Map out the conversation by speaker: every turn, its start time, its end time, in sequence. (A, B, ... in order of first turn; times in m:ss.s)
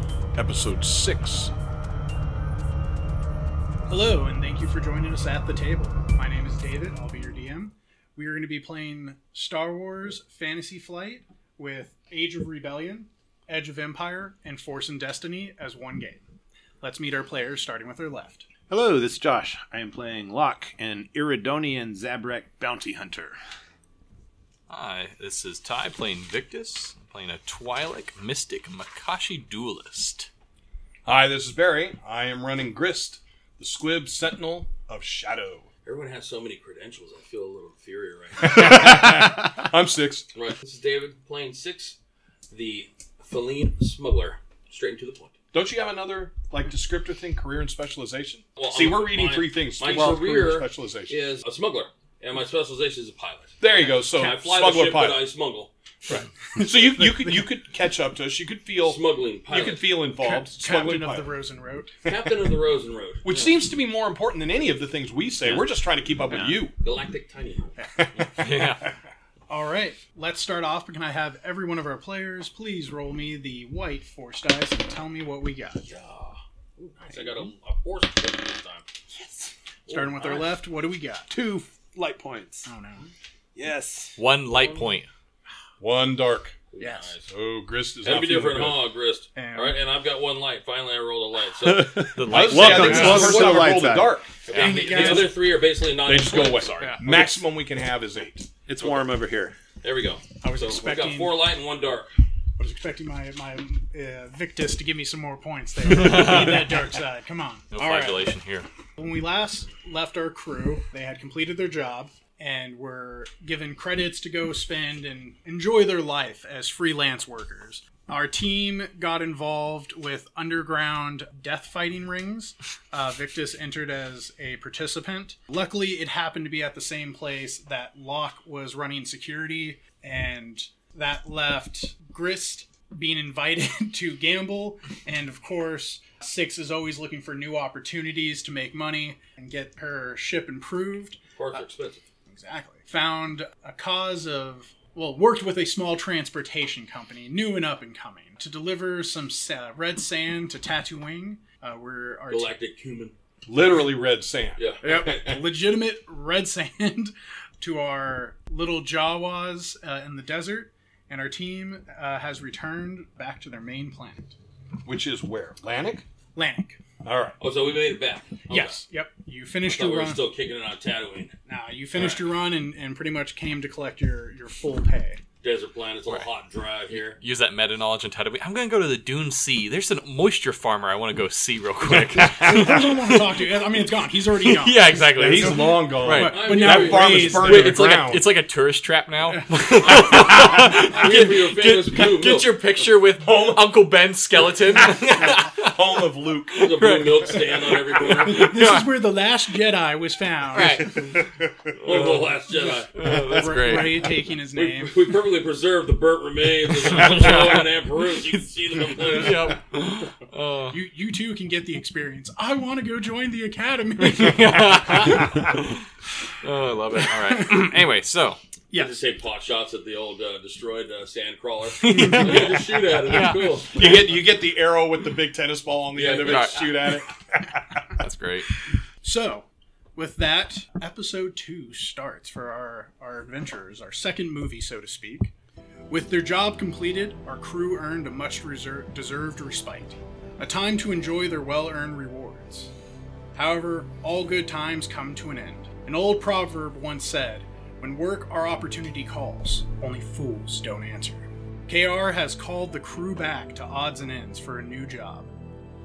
0:00.3-0:01.5 A
0:03.9-0:16.2 B
0:16.8-0:18.5 B
0:18.7-0:23.4 C
0:24.7-0:30.3 D
0:31.1-0:35.7 A
0:35.8-0:39.1 E
0:38.4-0:40.3 A
0:40.3-0:42.0 E
0:42.5-0:45.3 E
0:45.5-0:51.2 A
0:48.6-0:55.7 E
0:53.6-0:55.3 A
0:56.1-1:01.4 A
0:56.6-0:57.4 B
0:58.8-0:59.9 E
1:00.2-1:02.0 B
1:02.1-1:03.5 E
1:03.2-1:06.8 A
1:05.4-1:05.7 C
1:06.3-1:06.6 C
1:06.8-1:07.8 E
1:08.0-1:08.5 A
1:08.3-1:08.9 D
1:09.5-1:15.9 B
1:15.9-1:18.9 E
1:17.1-1:17.4 C
1:19.1-1:19.5 C
1:19.9-1:20.4 E
1:19.9-1:21.3 B
1:21.3-1:22.7 C
1:22.6-1:23.1 B
1:23.6-1:24.2 C
1:24.2-1:25.1 D
1:24.5-1:24.8 E
1:25.8-1:26.6 A
1:26.7-1:27.3 E
1:27.3-1:28.8 A
1:28.0-1:32.1 E
1:29.4-1:29.8 B
1:31.6-1:34.2 C
1:32.1-1:33.5 D
1:32.2-1:35.4 A
1:32.8-1:33.6 B
1:34.5-1:37.2 E
1:34.5-1:34.9 D
1:34.6-1:35.4 B
1:36.0-1:38.5 A
1:38.7-1:39.6 C
1:38.8-1:39.1 E
1:39.8-1:42.1 E
1:40.4-1:41.4 B
1:42.6-1:48.1 B
1:45.9-1:46.7 D
1:47.7-1:48.7 D
1:49.0-2:21.6 B
2:21.4-2:22.1 E
2:22.3-2:32.6 B
2:32.3-2:33.2 E
2:33.5-2:35.4 A
2:34.6-2:34.8 E
2:34.8-2:44.3 B
2:44.8-2:46.0 A
2:46.4-2:46.8 B
2:47.0-2:47.4 A
2:47.4-2:48.8 E
2:48.5-2:50.2 B
2:49.6-2:51.4 E
2:51.5-2:55.2 B
2:52.0-2:52.2 E
2:55.4-2:57.2 E
2:56.9-3:03.4 D
3:02.4-3:07.8 B
3:04.3-3:19.0 D
3:05.1-3:08.4 A
3:06.2-3:07.3 E
3:09.3-3:10.2 B
3:10.5-3:12.5 E
3:13.2-3:13.9 A
3:14.8-3:16.7 A
3:16.6-3:18.4 E
3:18.2-3:21.0 B
3:20.5-3:21.2 D
3:21.8-3:22.9 E
3:21.9-3:22.3 D
3:22.9-3:24.2 D
3:23.1-3:25.0 B
3:24.5-3:29.5 E
3:26.9-3:27.6 D
3:27.0-3:27.6 A
3:29.1-3:30.8 D
3:30.7-3:35.4 B
3:34.0-3:35.8 D
3:36.4-3:38.4 D
3:37.0-3:37.8 B
3:38.7-3:39.0 B
3:38.7-3:44.0 E
3:41.8-3:43.6 D
3:41.9-3:42.3 B
3:43.7-3:47.8 A
3:45.9-3:46.7 E
3:46.2-3:47.0 D
3:47.9-3:48.5 D
3:49.0-3:55.3 B
3:55.9-4:02.7 B
4:03.4-4:15.3 B